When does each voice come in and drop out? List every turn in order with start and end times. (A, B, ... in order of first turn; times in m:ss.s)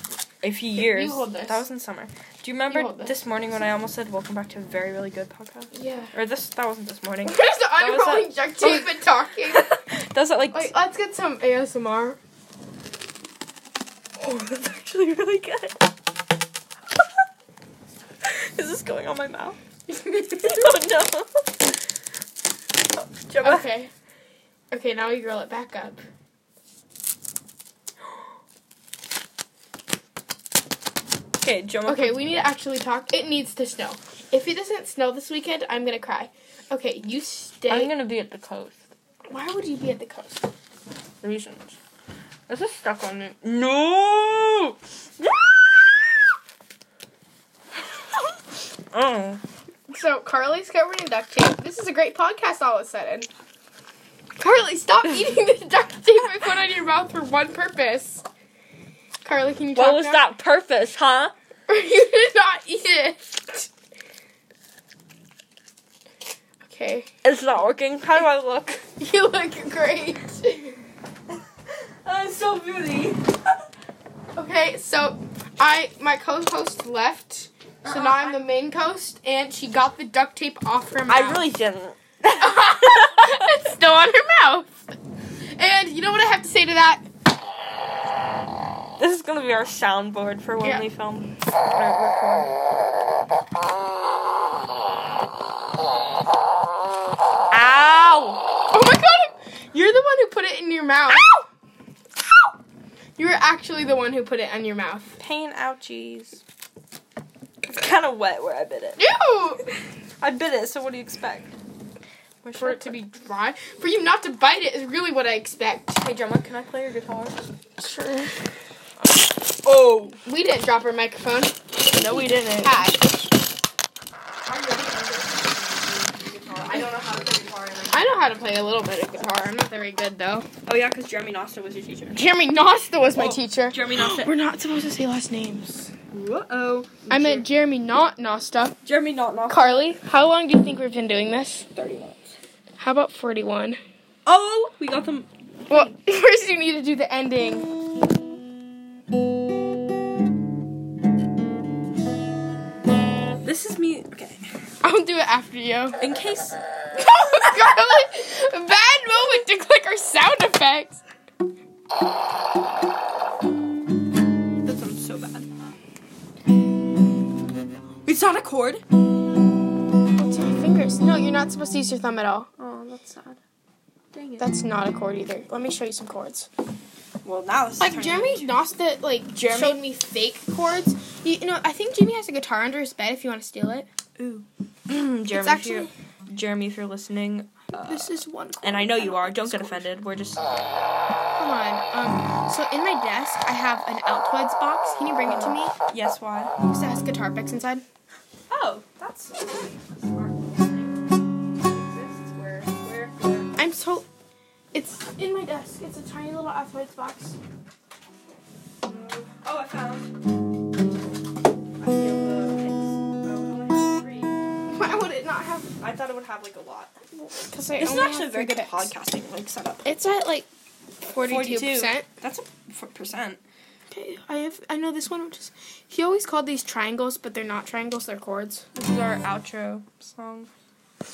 0:00.4-0:09.0 A
0:00.7-0:01.6 B
0:02.7-0:03.2 B
0:05.7-0:06.1 B
0:07.2-0:09.8 B
0:09.5-0:10.7 A
0:10.5-0:12.2 B
0:14.2-0:15.8 A
0:18.2-0:19.6 A
0:19.9-0:20.7 B
0:20.1-0:21.5 A
0:23.0-0:23.9 B
0:23.3-0:23.7 A
0:24.7-0:26.0 B
0:31.4-0:32.2 A
0:31.9-0:37.9 B
0:37.7-0:38.9 A
0:39.3-0:40.5 B
0:41.2-0:41.8 A
0:42.5-0:46.2 A
0:48.9-0:49.4 A
0:49.9-0:53.3 B
0:54.4-0:58.2 B
0:59.2-1:00.3 B
0:59.8-1:01.3 A
1:01.7-1:03.7 B
1:06.6-1:07.1 B
1:07.2-1:08.9 A
1:09.0-1:10.8 B
1:12.0-1:13.4 A
1:14.4-1:21.5 B
1:17.8-1:18.3 A
1:21.1-1:23.5 A
1:22.4-1:24.8 B
1:25.5-1:27.1 B
1:29.0-1:32.5 A
1:37.5-1:38.5 A
1:38.7-1:41.5 B
1:43.2-1:45.2 B
1:45.2-1:46.4 A
1:47.6-1:49.0 A
1:49.0-1:49.6 B
1:50.2-1:51.5 A
1:52.4-1:53.0 A
1:52.6-1:56.0 B
1:56.0-1:57.4 A
1:57.8-1:58.4 B
1:59.6-2:00.2 A
2:00.2-2:03.2 B
2:01.9-2:03.0 A
2:04.5-2:08.2 A
2:07.9-2:10.5 B
2:10.7-2:12.2 A
2:12.1-2:15.9 B
2:13.1-2:14.4 A
2:16.1-2:17.5 A
2:17.1-2:18.8 B
2:18.8-2:19.9 A
2:19.5-2:21.7 B
2:21.7-2:22.4 A
2:22.8-2:23.8 B
2:24.3-2:25.9 A
2:25.7-2:27.7 B
2:33.4-2:34.5 A
2:34.8-2:36.0 B
2:36.0-2:36.6 A
2:36.9-2:41.0 B
2:44.6-2:45.5 A
2:48.0-2:48.8 A
2:50.1-2:52.5 B
2:52.6-2:53.4 A
2:54.1-2:54.5 A
2:54.4-2:56.5 B
2:57.2-2:58.5 A
2:57.8-3:03.9 B
2:59.3-2:59.8 A
3:04.2-3:08.1 A
3:05.3-3:05.9 B
3:07.8-3:09.9 B
3:08.6-3:10.6 A
3:11.4-3:15.7 B
3:15.3-3:16.6 A
3:16.6-3:17.8 B
3:18.5-3:23.6 A
3:23.6-3:24.1 B
3:24.7-3:27.4 B
3:28.8-3:30.1 A
3:31.8-3:34.4 A
3:34.7-3:35.8 B
3:35.8-3:37.0 A
3:37.4-3:38.9 B
3:37.8-3:39.9 A
3:39.8-3:40.5 B
3:41.1-3:42.1 B
3:41.2-3:43.4 A
3:43.9-3:48.7 B
3:48.8-3:50.5 A